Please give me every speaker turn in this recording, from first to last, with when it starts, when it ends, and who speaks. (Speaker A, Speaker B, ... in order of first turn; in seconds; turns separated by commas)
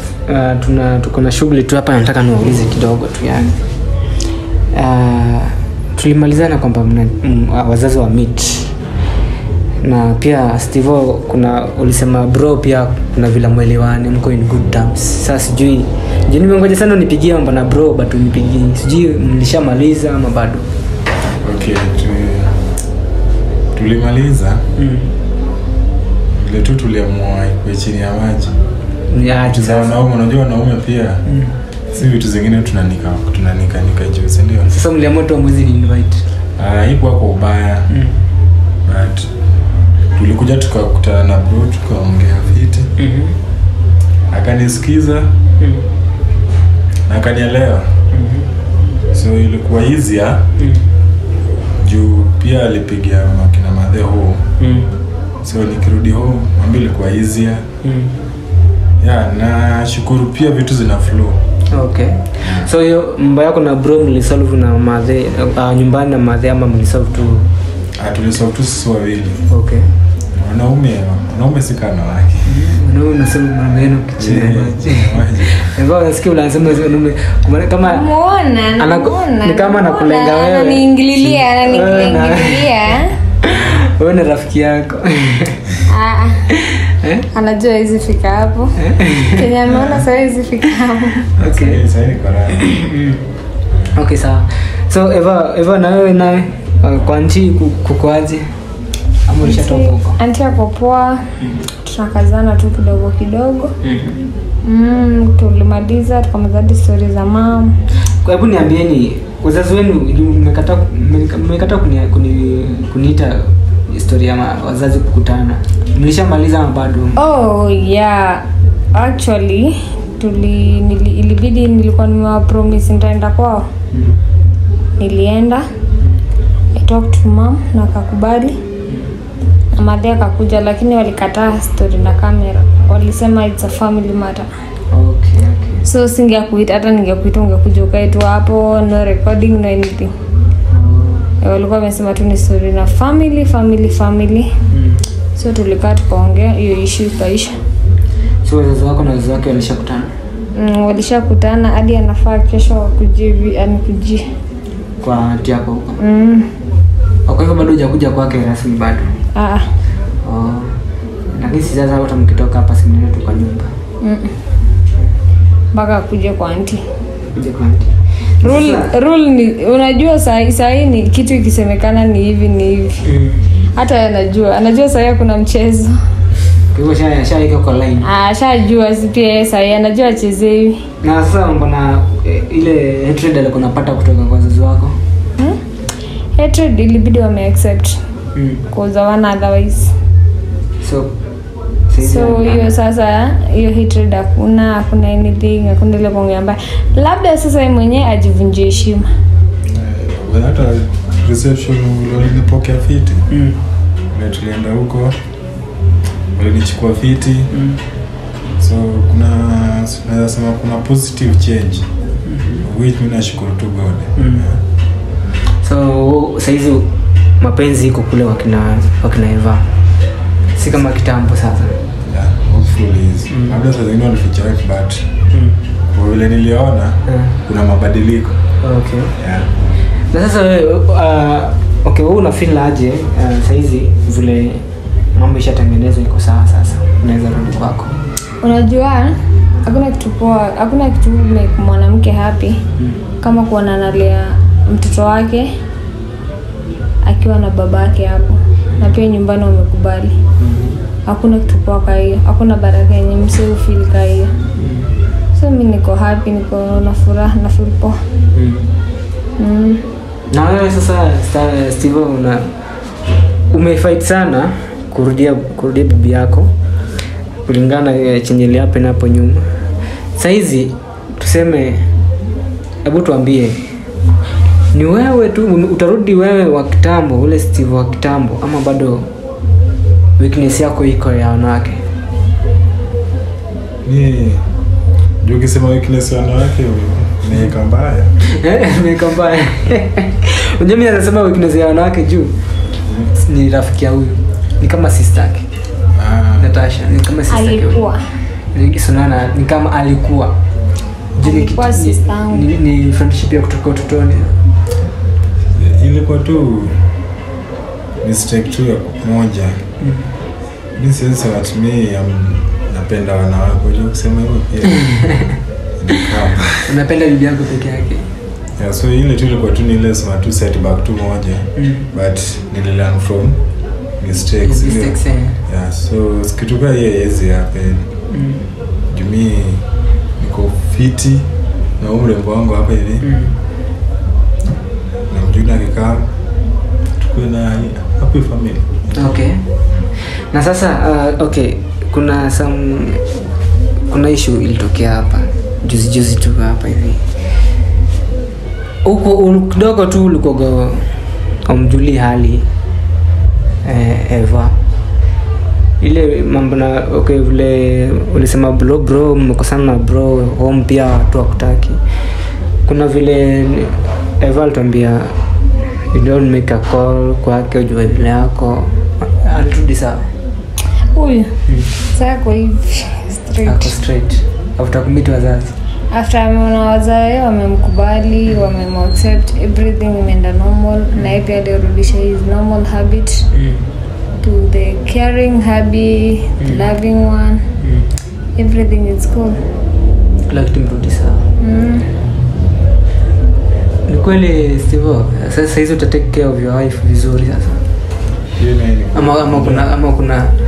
Speaker A: 0.3-3.5, Speaker A: 4.7-8.8, Speaker A: 9.8-20.7, Speaker B: 21.4-22.6, Speaker B: 23.7-24.6, Speaker A: 24.8-25.1, Speaker B: 26.3-28.6, Speaker A: 29.1-29.9, Speaker B: 29.4-31.2, Speaker A: 31.3-31.6, Speaker B: 31.9-34.7, Speaker A: 34.7-36.2, Speaker B: 36.6-37.9, Speaker A: 37.9-38.2, Speaker B: 38.9-39.3, Speaker B: 40.1-42.9, Speaker A: 43.0-43.4, Speaker B: 44.3-45.3, Speaker B: 47.1-48.0, Speaker A: 48.1-48.5, Speaker B: 49.1-50.5, Speaker A: 50.6-50.8, Speaker B: 51.8-54.5, Speaker A: 54.6-54.9, Speaker B: 55.4-57.7, Speaker A: 57.8-58.1, Speaker B: 59.0-61.4, Speaker A: 61.7-67.5, Speaker B: 62.4-62.7, Speaker B: 68.0-69.5, Speaker A: 69.5-69.9, Speaker B: 70.3-72.5, Speaker A: 72.4-78.1, Speaker B: 74.2-75.8, Speaker C: 77.8-83.2, Speaker A: 78.8-82.8, Speaker A: 83.4-85.7, Speaker B: 83.5-83.8, Speaker C: 85.9-86.5, Speaker A: 86.7-87.3, Speaker C: 87.3-91.2, Speaker A: 88.8-89.4, Speaker B: 89.7-90.1, Speaker A: 91.4-91.8, Speaker B: 91.4-92.6, Speaker A: 92.7-93.2, Speaker A: 93.9-98.5, Speaker A: 99.3-100.2, Speaker C: 99.4-103.8, Speaker A: 103.8-104.2, Speaker C: 104.6-107.7, Speaker A: 108.2-117.2, Speaker C: 117.2-123.7, Speaker A: 123.9-124.2, Speaker C: 125.0-125.7, Speaker C: 126.7-128.6, Speaker A: 128.9-129.1, Speaker C: 129.8-134.5, Speaker A: 134.9-135.8, Speaker C: 135.8-140.1, Speaker A: 140.7-141.3, Speaker C: 141.4-144.5, Speaker A: 144.7-145.0, Speaker C: 145.4-147.5, Speaker A: 148.4-150.1, Speaker C: 150.6-154.2, Speaker A: 155.0-156.0, Speaker C: 156.0-156.5, Speaker A: 157.3-159.1, Speaker C: 159.3-159.7, Speaker A: 160.2-160.8, Speaker A: 161.3-163.8, Speaker C: 164.0-164.4, Speaker C: 165.7-166.8, Speaker A: 167.3-168.9, Speaker C: 168.4-173.0, Speaker A: 173.0-173.4, Speaker C: 173.8-176.0, Speaker A: 176.7-178.1, Speaker C: 178.0-180.9, Speaker A: 181.0-185.0, Speaker C: 186.4-188.0, Speaker A: 188.3-188.6, Speaker C: 188.7-189.9, Speaker A: 190.8-191.1, Speaker A: 191.9-192.8, Speaker C: 192.0-199.1, Speaker B: 199.7-203.3, Speaker A: 203.3-203.6, Speaker B: 204.1-205.2, Speaker B: 206.3-207.5, Speaker A: 207.5-207.8, Speaker B: 208.6-211.9, Speaker A: 212.3-212.6, Speaker B: 212.6-214.6, Speaker A: 214.2-214.5, Speaker A: 215.6-219.7, Speaker A: 220.6-221.8, Speaker B: 222.1-225.2, Speaker A: 223.3-223.6, Speaker A: 225.3-225.6, Speaker B: 225.9-228.5, Speaker A: 227.1-227.3, Speaker A: 228.6-229.1, Speaker B: 229.2-229.5, Speaker A: 230.1-234.6, Speaker A: 235.2-238.0, Speaker C: 238.4-242.6, Speaker C: 243.2-245.5, Speaker C: 247.0-250.2, Speaker A: 250.4-250.8, Speaker C: 251.1-254.3, Speaker A: 254.6-254.9, Speaker C: 255.3-258.0, Speaker A: 258.4-258.7, Speaker C: 259.4-259.9, Speaker A: 260.3-262.5, Speaker A: 263.5-266.5, Speaker A: 267.5-269.5, Speaker A: 270.2-271.9, Speaker A: 272.8-273.6, Speaker A: 274.7-279.1, Speaker A: 280.2-281.8, Speaker B: 283.8-284.5, Speaker B: 285.2-288.1, Speaker A: 288.3-292.3, Speaker A: 293.1-295.5, Speaker B: 295.9-296.5, Speaker A: 296.4-297.8, Speaker C: 297.3-298.1, Speaker A: 298.5-300.4, Speaker C: 301.2-302.5, Speaker A: 301.2-304.4, Speaker B: 305.5-306.8, Speaker B: 308.0-309.6, Speaker A: 309.8-310.1, Speaker B: 310.8-315.1, Speaker B: 315.8-316.7, Speaker A: 316.7-318.1, Speaker B: 318.6-323.4, Speaker A: 321.6-321.9, Speaker B: 324.0-327.9, Speaker A: 324.4-325.4, Speaker A: 328.1-328.4, Speaker B: 328.9-329.6, Speaker B: 330.2-333.1, Speaker A: 333.0-333.4, Speaker B: 335.1-336.1, Speaker B: 337.0-339.0, Speaker A: 339.0-339.4, Speaker A: 340.3-343.0, Speaker A: 343.9-347.0, Speaker A: 348.8-352.5, Speaker A: 353.6-354.6, Speaker A: 355.8-361.8, Speaker A: 362.7-365.1, Speaker A: 365.9-370.0, Speaker C: 370.9-371.4, Speaker C: 371.9-373.8, Speaker A: 373.4-375.6, Speaker C: 375.9-383.3, Speaker A: 383.3-383.6, Speaker C: 384.2-387.4, Speaker A: 386.4-386.7, Speaker A: 387.6-387.9, Speaker C: 388.4-389.4, Speaker A: 390.3-391.2, Speaker C: 391.4-391.9, Speaker A: 393.9-397.6, Speaker B: 398.4-399.7, Speaker A: 398.9-400.3